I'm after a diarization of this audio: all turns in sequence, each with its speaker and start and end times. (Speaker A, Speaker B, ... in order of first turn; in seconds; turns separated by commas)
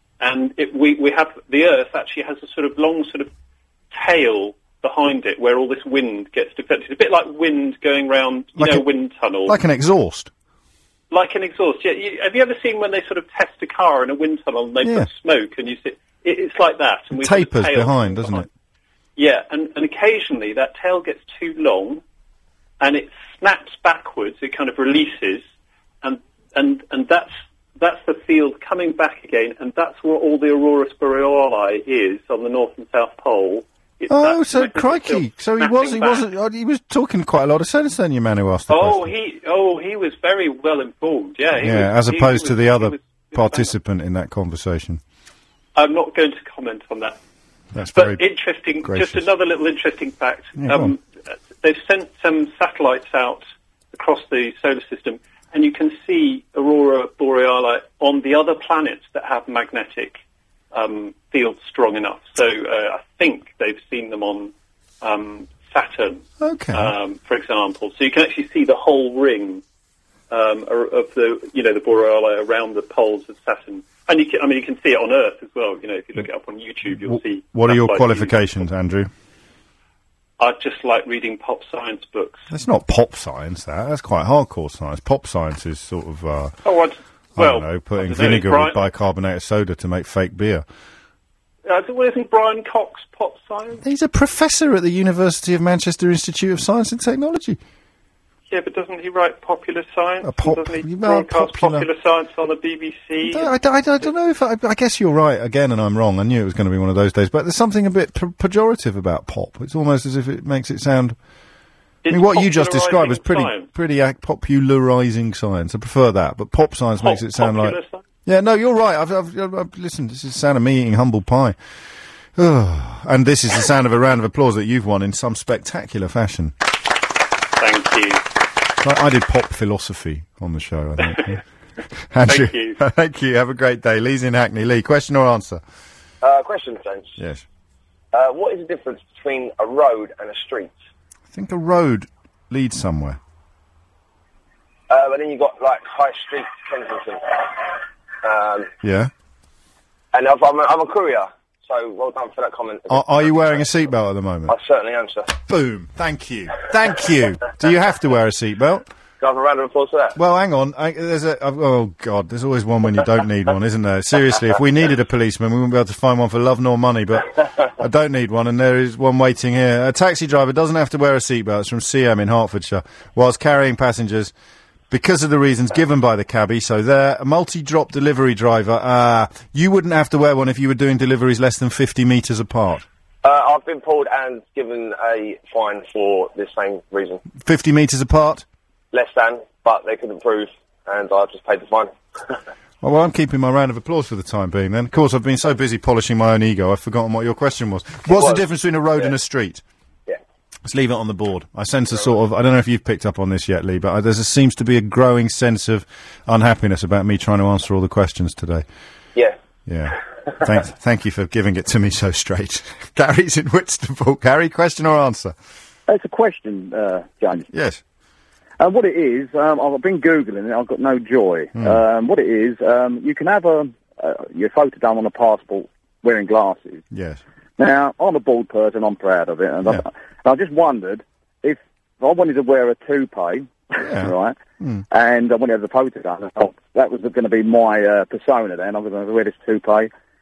Speaker A: 0.2-3.3, Speaker A: 3.9-9.6, Speaker B: 8.6-8.8, Speaker B: 9.5-10.3, Speaker A: 11.1-18.5, Speaker B: 14.8-15.1, Speaker B: 17.1-18.5, Speaker A: 19.2-22.0, Speaker A: 22.8-25.4, Speaker A: 26.0-36.2, Speaker B: 34.1-39.1, Speaker A: 38.7-43.7, Speaker B: 41.6-45.0, Speaker A: 45.8-47.2, Speaker B: 47.7-48.2, Speaker A: 47.9-51.0, Speaker B: 48.8-49.3, Speaker B: 50.6-50.9, Speaker A: 51.6-60.2, Speaker A: 60.7-69.6, Speaker B: 66.4-66.9, Speaker A: 70.3-78.3, Speaker B: 76.9-79.1, Speaker A: 80.4-82.4, Speaker B: 82.5-86.5, Speaker A: 86.7-88.8, Speaker B: 87.4-90.7, Speaker A: 91.7-93.8, Speaker B: 93.8-97.6, Speaker A: 98.5-103.5, Speaker B: 100.2-101.9, Speaker B: 103.2-111.2, Speaker A: 112.0-113.7, Speaker B: 112.1-121.6, Speaker A: 117.0-118.0, Speaker B: 122.4-126.5, Speaker A: 127.6-128.2, Speaker B: 128.8-131.4, Speaker B: 132.1-135.6, Speaker A: 132.2-132.8, Speaker C: 136.2-137.2, Speaker B: 137.2-137.4, Speaker C: 138.1-140.7, Speaker B: 141.3-143.2, Speaker C: 144.9-147.7, Speaker C: 148.2-148.7, Speaker B: 148.8-149.1, Speaker C: 150.1-153.5, Speaker B: 152.9-154.6, Speaker C: 154.5-155.3, Speaker B: 155.4-158.9, Speaker C: 159.2-160.2, Speaker B: 160.2-174.3, Speaker B: 174.9-182.9, Speaker C: 183.2-187.2, Speaker B: 187.4-188.4, Speaker C: 188.9-191.9, Speaker B: 192.8-199.6, Speaker C: 198.1-198.4, Speaker B: 200.7-208.7, Speaker B: 209.7-215.3, Speaker D: 215.9-217.5, Speaker B: 217.5-217.8, Speaker D: 218.6-226.8, Speaker B: 226.9-227.2, Speaker D: 227.6-234.4, Speaker B: 233.8-234.8, Speaker D: 234.9-239.9